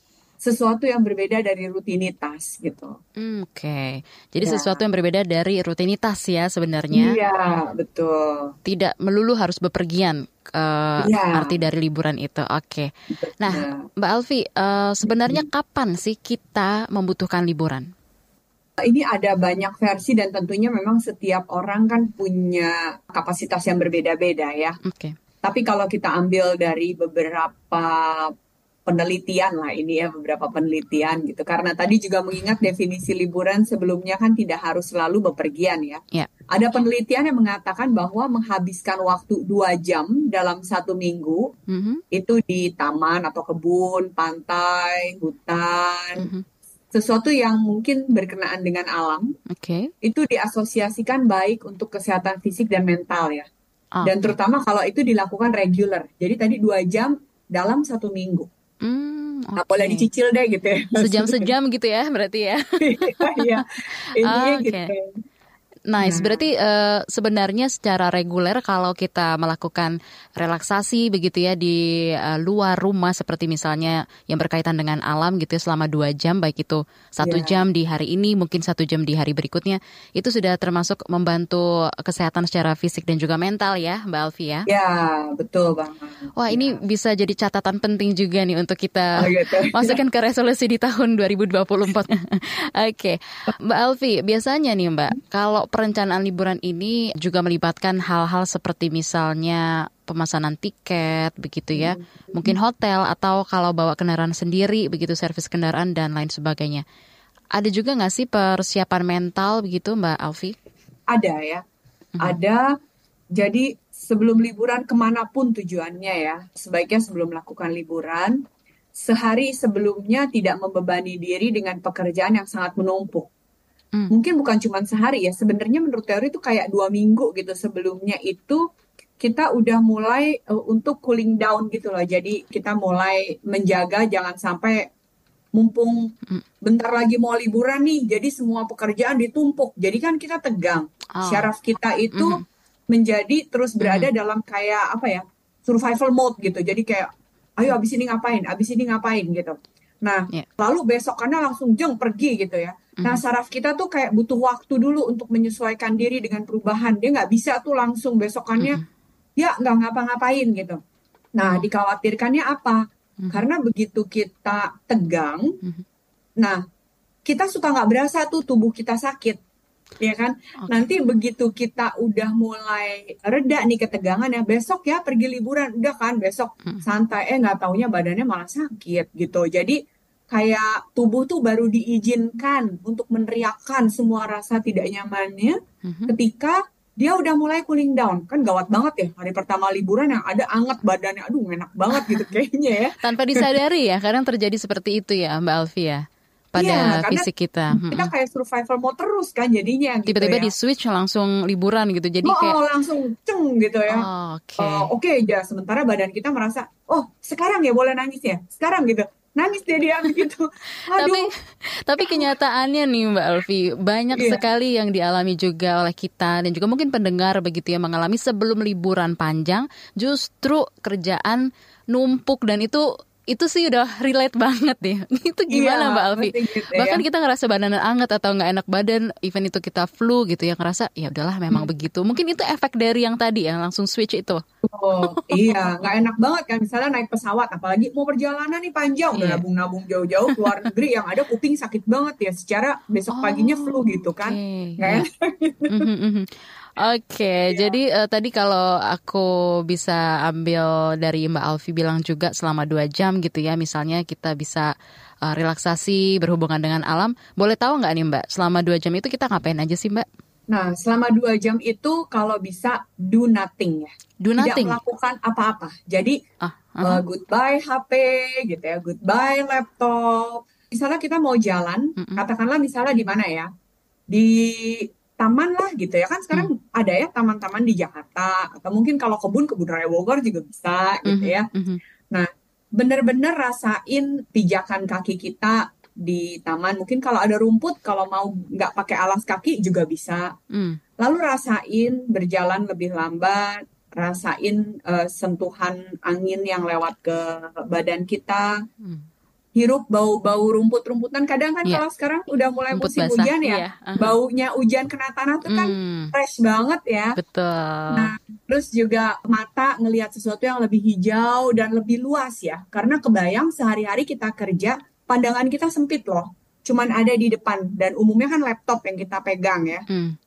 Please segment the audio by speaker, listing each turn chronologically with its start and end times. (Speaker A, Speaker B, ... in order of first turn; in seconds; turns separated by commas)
Speaker A: 0.4-3.0, Speaker B: 3.2-7.2, Speaker A: 4.4-4.8, Speaker A: 6.9-8.5, Speaker B: 8.6-12.9, Speaker A: 11.0-11.5, Speaker A: 13.2-13.9, Speaker B: 13.4-17.9, Speaker A: 15.1-15.4, Speaker A: 18.8-24.8, Speaker B: 24.8-25.1, Speaker A: 25.4-28.3, Speaker A: 28.9-36.0, Speaker A: 36.5-41.5, Speaker B: 41.7-42.0, Speaker A: 42.1-46.3, Speaker B: 46.2-46.4, Speaker A: 46.9-49.3, Speaker B: 49.5-49.9, Speaker A: 50.0-53.5, Speaker B: 54.0-54.3, Speaker A: 54.0-58.5, Speaker B: 58.8-60.1, Speaker A: 59.6-61.5, Speaker B: 61.0-63.6, Speaker A: 62.8-63.6, Speaker A: 64.1-65.1, Speaker B: 64.2-64.9, Speaker B: 65.9-84.7, Speaker A: 66.0-66.5, Speaker A: 77.2-77.5, Speaker A: 84.7-86.8, Speaker B: 86.4-106.8, Speaker A: 89.2-90.0, Speaker A: 101.7-102.5, Speaker B: 107.5-110.5, Speaker A: 111.1-111.6, Speaker A: 112.2-112.6, Speaker A: 113.3-118.4, Speaker A: 118.9-123.3, Speaker A: 124.1-128.6, Speaker A: 129.2-134.9, Speaker A: 135.5-136.1, Speaker A: 136.6-158.8, Speaker B: 141.2-141.5, Speaker B: 142.1-142.4, Speaker B: 143.8-144.1, Speaker B: 158.6-158.8, Speaker A: 159.4-160.8, Speaker A: 161.3-165.5, Speaker A: 167.2-169.4, Speaker A: 170.0-179.8, Speaker A: 180.3-185.6, Speaker B: 185.8-186.1, Speaker A: 186.1-193.5, Speaker B: 191.9-192.3, Speaker B: 193.0-198.1, Speaker A: 196.6-200.5, Speaker B: 200.1-202.6, Speaker A: 202.2-204.1, Speaker B: 203.9-204.9, Speaker A: 204.6-211.3, Speaker B: 210.9-211.3, Speaker B: 211.8-234.4, Speaker A: 212.0-212.3, Speaker A: 214.1-214.4, Speaker A: 225.5-227.0, Speaker A: 234.7-245.9, Speaker B: 235.0-235.6, Speaker B: 239.2-239.4, Speaker B: 240.3-240.7, Speaker B: 243.1-245.0, Speaker B: 245.7-254.7, Speaker A: 247.5-247.8, Speaker B: 255.2-260.1, Speaker A: 260.5-266.2, Speaker B: 264.2-264.8, Speaker B: 266.4-267.0, Speaker A: 266.8-273.5, Speaker A: 274.1-281.5, Speaker B: 281.1-281.8, Speaker A: 282.1-290.3, Speaker B: 290.5-290.8, Speaker A: 291.0-298.5, Speaker A: 299.6-307.1, Speaker B: 302.7-304.1, Speaker B: 305.5-306.1, Speaker B: 307.2-308.1, Speaker A: 307.9-319.8, Speaker B: 319.9-320.2